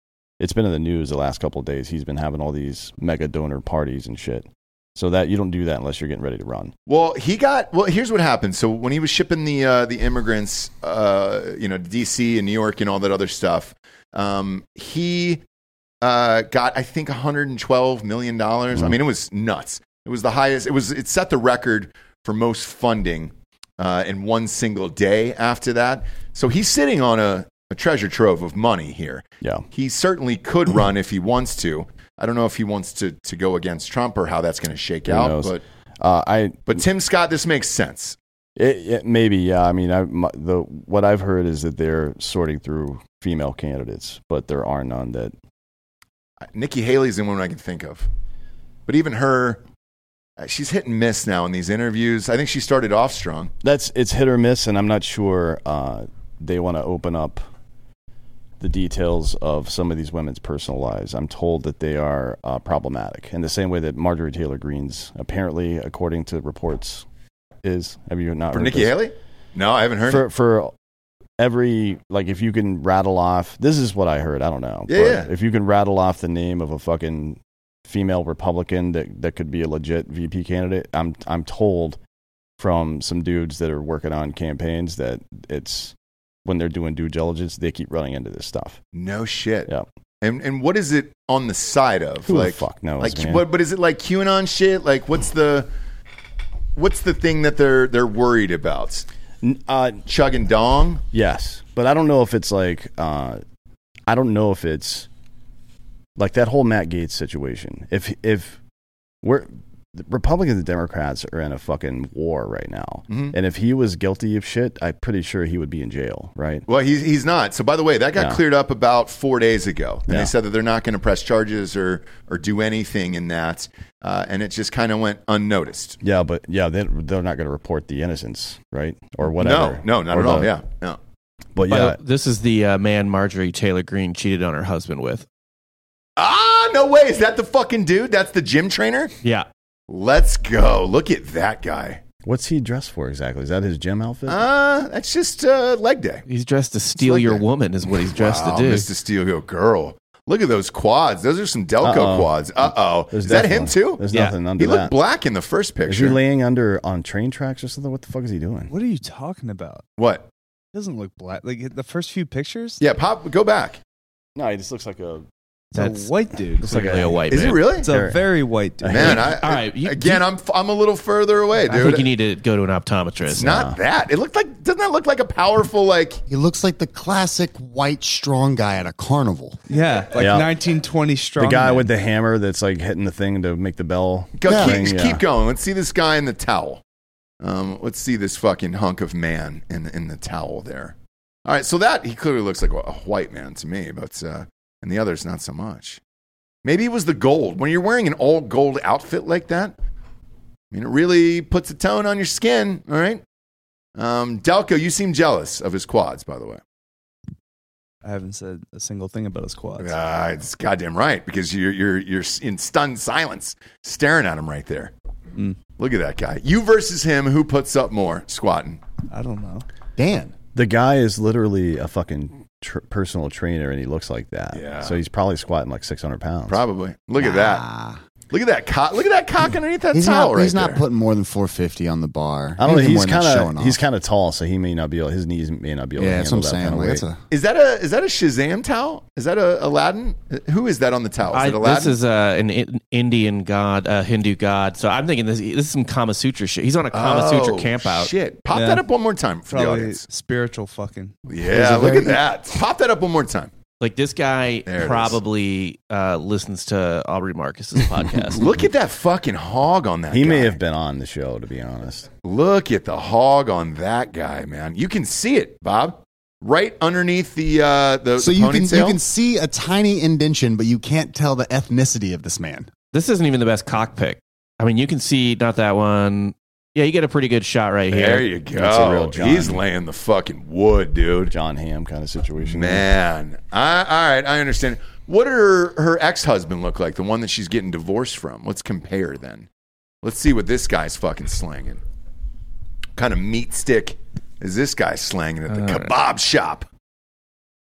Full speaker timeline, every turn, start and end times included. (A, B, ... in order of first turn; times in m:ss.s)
0:00.4-0:06.7 A
0:06.9-0:15.4 B
0:16.0-0:35.6 B
0:35.1-0:36.8 A
0:36.7-0:38.2 B
0:38.6-0:45.3 A
0:46.5-0:48.1 B
0:48.9-0:49.6 B
0:50.4-0:53.5 B
0:53.6-0:57.4 A
0:58.6-1:07.0 A
1:07.6-1:09.0 A
1:08.5-1:10.2 B
1:10.0-1:10.7 A
1:11.4-1:22.0 A
1:14.9-1:15.3 B
1:22.6-1:25.9 A
1:26.4-1:28.8 A
1:28.9-1:29.7 B
1:30.2-1:35.7 B
1:32.2-1:33.4 A
1:36.8-1:39.0 B
1:39.4-1:40.0 A
1:40.0-1:41.0 B
1:41.1-1:43.4 A
1:44.1-1:45.1 A
1:46.2-1:48.6 A
1:49.2-1:56.6 A
1:53.1-1:53.3 B
1:56.7-2:06.0 B
2:00.1-2:00.3 A
2:06.0-2:10.5 A
2:09.4-2:11.0 B
2:11.6-2:12.0 A
2:11.7-2:15.2 C
2:16.2-2:19.1 B
2:19.9-2:22.0 B
2:22.2-2:24.5 A
2:24.3-2:26.2 B
2:26.3-2:28.9 C
2:27.0-2:34.0 B
2:31.8-2:34.9 A
2:34.6-2:36.2 B
2:35.9-2:38.7 A
2:38.7-2:39.8 D
2:40.0-2:40.3 B
2:40.7-2:42.8 D
2:42.8-2:43.8 B
2:44.4-2:45.2 A
2:45.7-2:47.0 D
2:45.8-2:46.1 C
2:46.6-2:47.3 A
2:46.6-2:47.7 C
2:47.3-2:47.9 B
2:47.7-2:49.3 D
2:47.8-2:49.3 A
2:48.9-2:52.1 B
2:49.0-2:50.2 C
2:51.7-2:53.5 C
2:53.3-2:56.2 B
2:53.4-2:53.8 A
2:56.3-2:59.6 E
2:59.7-3:01.9 D
3:00.2-3:00.5 A
3:01.4-3:05.2 A
3:04.4-3:06.8 B
3:04.4-3:04.8 E
3:07.4-3:16.0 B
3:16.6-3:19.8 B
3:20.7-3:23.2 B
3:24.0-3:26.6 B
3:28.0-3:30.0 D
3:29.8-3:34.9 B
3:35.8-3:38.8 B
3:39.1-3:39.6 D
3:40.0-3:40.3 E
3:40.5-3:46.6 A
3:44.5-3:45.0 B
3:46.5-3:47.6 B
3:47.2-3:48.0 E
3:48.3-3:50.8 B
3:49.9-3:53.8 E
3:52.6-3:57.0 A
3:56.0-3:57.2 E
3:57.3-4:01.9 B
4:01.3-4:08.1 C
4:06.9-4:10.0 B
4:08.5-4:08.8 D
4:09.5-4:11.2 D
4:11.3-4:13.5 B
4:11.5-4:12.2 E
4:13.8-4:18.4 C
4:14.7-4:15.2 B
4:18.3-4:20.6 B
4:20.1-4:22.1 A
4:22.2-4:29.0 B
4:28.2-4:32.7 E
4:32.9-4:38.2 C
4:37.9-4:41.3 B
4:38.5-4:39.6 A
4:41.3-4:42.9 A
4:42.4-4:49.5 B
4:50.0-4:51.8 B
4:53.0-4:56.6 B
4:55.5-4:55.9 C